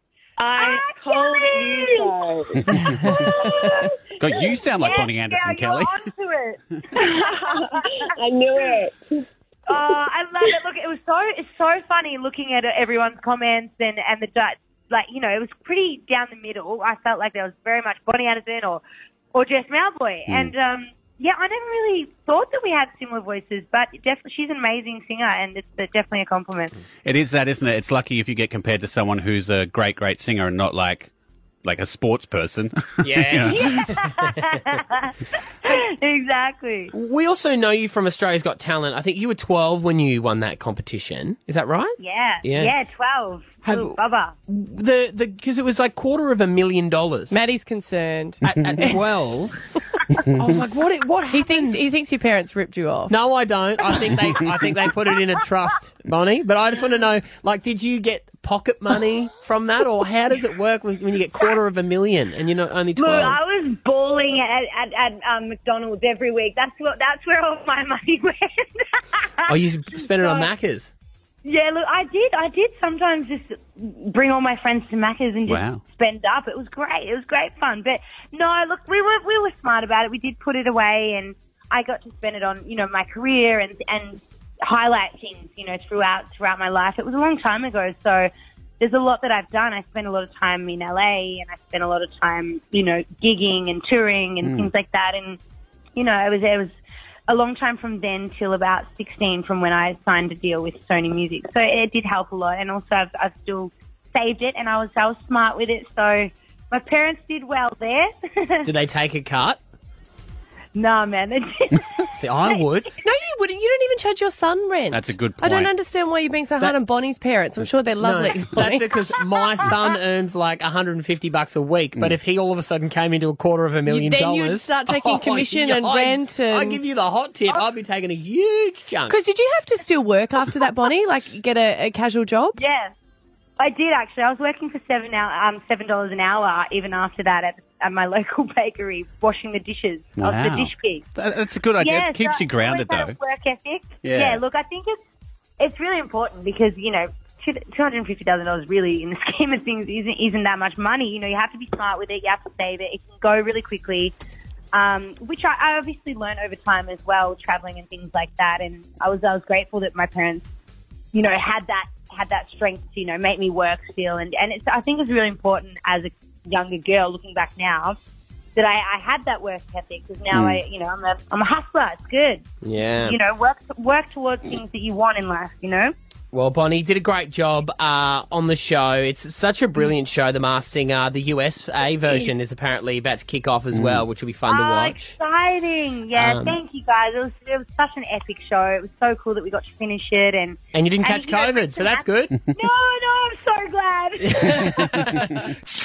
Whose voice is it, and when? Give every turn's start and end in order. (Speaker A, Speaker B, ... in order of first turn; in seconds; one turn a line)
Speaker A: 0.4-3.5
Speaker B: 0.5-8.1
Speaker C: 4.2-6.0
Speaker A: 7.1-9.8
Speaker B: 9.7-26.8
Speaker C: 27.0-31.1
Speaker C: 31.6-33.9
Speaker D: 33.0-34.3
Speaker B: 33.5-35.1
Speaker B: 35.6-36.9
Speaker D: 36.9-42.7
Speaker B: 42.0-44.3
Speaker D: 43.6-47.4
Speaker E: 47.3-49.0
Speaker D: 48.4-49.6
Speaker D: 50.3-51.9
Speaker E: 51.3-53.1
Speaker D: 53.1-63.4
Speaker B: 63.0-69.5
Speaker D: 69.5-70.9
Speaker B: 70.1-70.5
Speaker B: 71.4-95.4
Speaker C: 75.5-75.8
Speaker C: 94.4-94.7
Speaker B: 96.0-96.7
Speaker B: 97.3-108.7
Speaker D: 108.6-109.6
Speaker B: 110.8-112.1
Speaker D: 112.2-112.9
Speaker E: 113.0-119.0
Speaker C: 114.9-115.7
Speaker D: 118.0-129.2
Speaker E: 123.9-126.8
Speaker E: 129.1-132.6
Speaker B: 132.6-132.9
Speaker B: 133.6-141.1
Speaker C: 140.2-143.2
Speaker B: 141.8-144.9
Speaker C: 144.0-144.4
Speaker B: 145.6-154.1
Speaker B: 154.7-160.5
Speaker B: 161.1-167.9
Speaker B: 168.6-172.4
Speaker D: 170.3-170.6
Speaker D: 172.6-173.2
Speaker B: 173.0-175.9
Speaker D: 176.3-185.2
Speaker C: 183.7-184.1
Speaker B: 184.5-195.2
Speaker D: 186.2-186.6
Speaker D: 190.7-192.3
Speaker D: 194.2-195.0